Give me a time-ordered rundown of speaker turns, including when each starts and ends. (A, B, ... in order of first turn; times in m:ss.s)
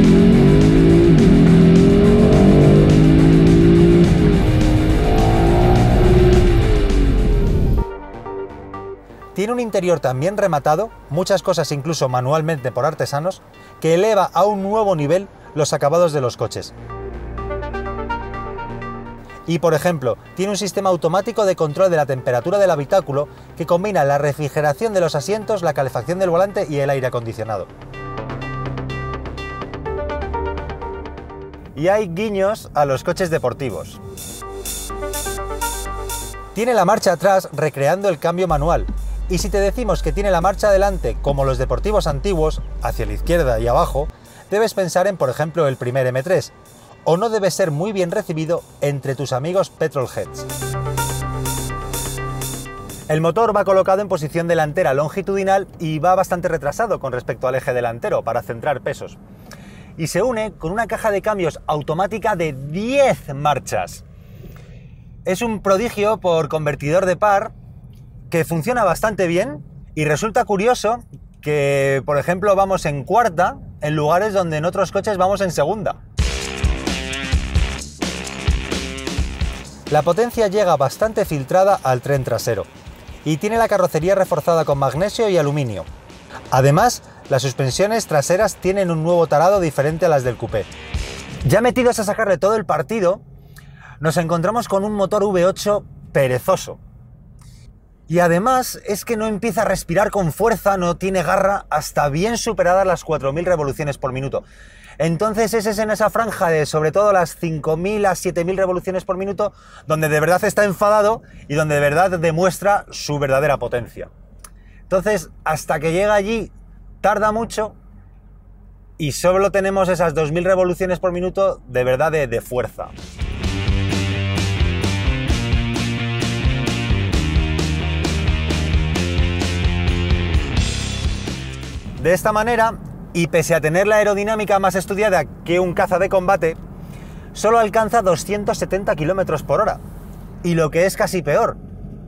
0:09.3-0:16.7 A
0:19.4-0:27.7 A
0:31.7-0:34.0 A
0:36.5-0:46.5 A
0:47.0-0:50.5 A
0:53.1-0:59.2 A
1:00.0-1:04.0 A
1:05.2-1:07.5 A
1:08.3-1:16.0 A
1:19.9-1:22.7 A
1:23.2-1:25.9 A
1:26.5-1:30.7 A
1:31.4-1:33.2 A
1:34.0-1:36.8 A
1:38.1-1:44.4 A
1:45.0-1:54.1 A
1:54.9-1:57.7 A
1:59.0-2:02.9 A
2:12.0-2:16.6 A
2:17.3-2:19.8 A
2:20.4-2:21.6 A